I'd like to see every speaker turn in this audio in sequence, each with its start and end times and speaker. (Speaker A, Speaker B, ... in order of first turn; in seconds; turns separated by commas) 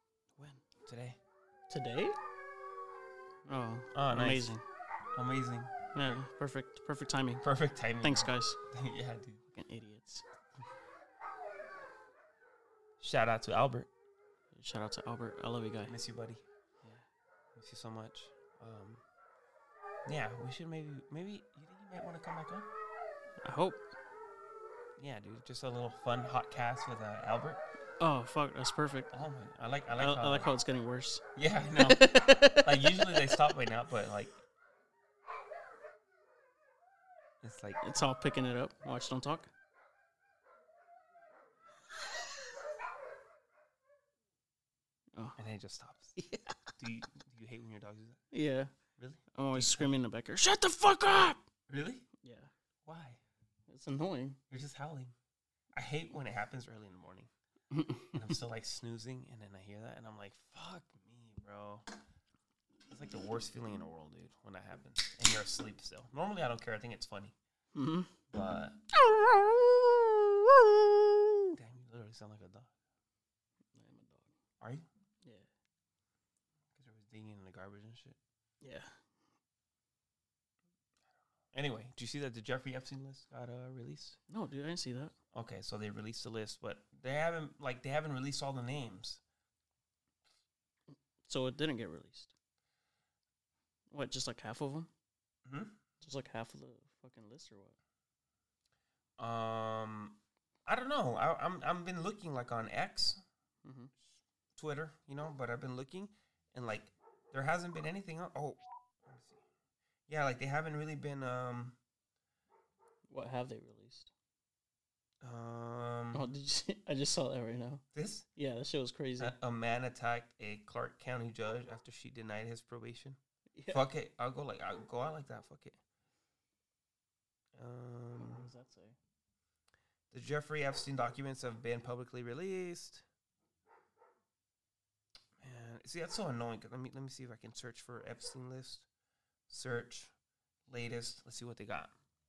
Speaker A: 0.3-0.6, Speaker B: 0.8-1.2, Speaker A: 1.7-2.2, Speaker A: 3.5-4.6, Speaker B: 3.9-4.5, Speaker B: 5.1-6.2, Speaker A: 5.9-7.5, Speaker B: 7.4-9.4, Speaker A: 8.0-8.6, Speaker A: 9.5-10.2, Speaker B: 13.0-13.9, Speaker A: 14.5-15.9, Speaker B: 15.8-16.4, Speaker B: 17.6-19.0, Speaker B: 20.1-22.7, Speaker A: 23.4-23.8, Speaker B: 25.0-27.6, Speaker A: 28.0-29.1, Speaker B: 29.1-30.5, Speaker A: 29.9-31.2, Speaker B: 31.3-34.4, Speaker A: 31.8-33.6, Speaker B: 37.4-38.1, Speaker A: 37.8-39.5, Speaker B: 45.4-46.1, Speaker A: 46.2-46.7, Speaker B: 46.8-48.2, Speaker A: 48.3-48.7, Speaker B: 49.0-50.0, Speaker A: 49.3-51.4, Speaker B: 51.7-52.1, Speaker A: 52.2-52.5, Speaker B: 52.9-53.2, Speaker A: 53.7-54.4, Speaker B: 54.5-55.1, Speaker B: 55.7-57.3, Speaker A: 57.7-58.3, Speaker B: 58.1-61.9, Speaker B: 62.9-67.3, Speaker A: 67.7-68.1, Speaker B: 68.3-68.8, Speaker A: 68.9-71.3, Speaker B: 71.5-72.7, Speaker A: 73.7-74.3, Speaker B: 76.7-78.2, Speaker A: 78.6-79.0, Speaker B: 81.5-84.2, Speaker A: 84.3-85.1, Speaker B: 85.3-89.2, Speaker A: 90.9-92.3, Speaker A: 93.9-94.9, Speaker B: 95.4-95.8, Speaker A: 96.0-97.8, Speaker B: 99.2-103.2, Speaker A: 103.6-103.9, Speaker B: 104.5-109.4, Speaker B: 110.1-111.8, Speaker A: 113.1-114.1, Speaker B: 115.2-116.2, Speaker A: 116.1-117.8, Speaker B: 117.9-118.2, Speaker A: 118.3-119.3, Speaker B: 119.2-125.8, Speaker A: 123.5-123.8, Speaker B: 127.5-128.5, Speaker A: 128.2-128.9, Speaker B: 130.1-133.0, Speaker B: 135.4-138.9, Speaker B: 139.5-140.1, Speaker B: 140.7-141.9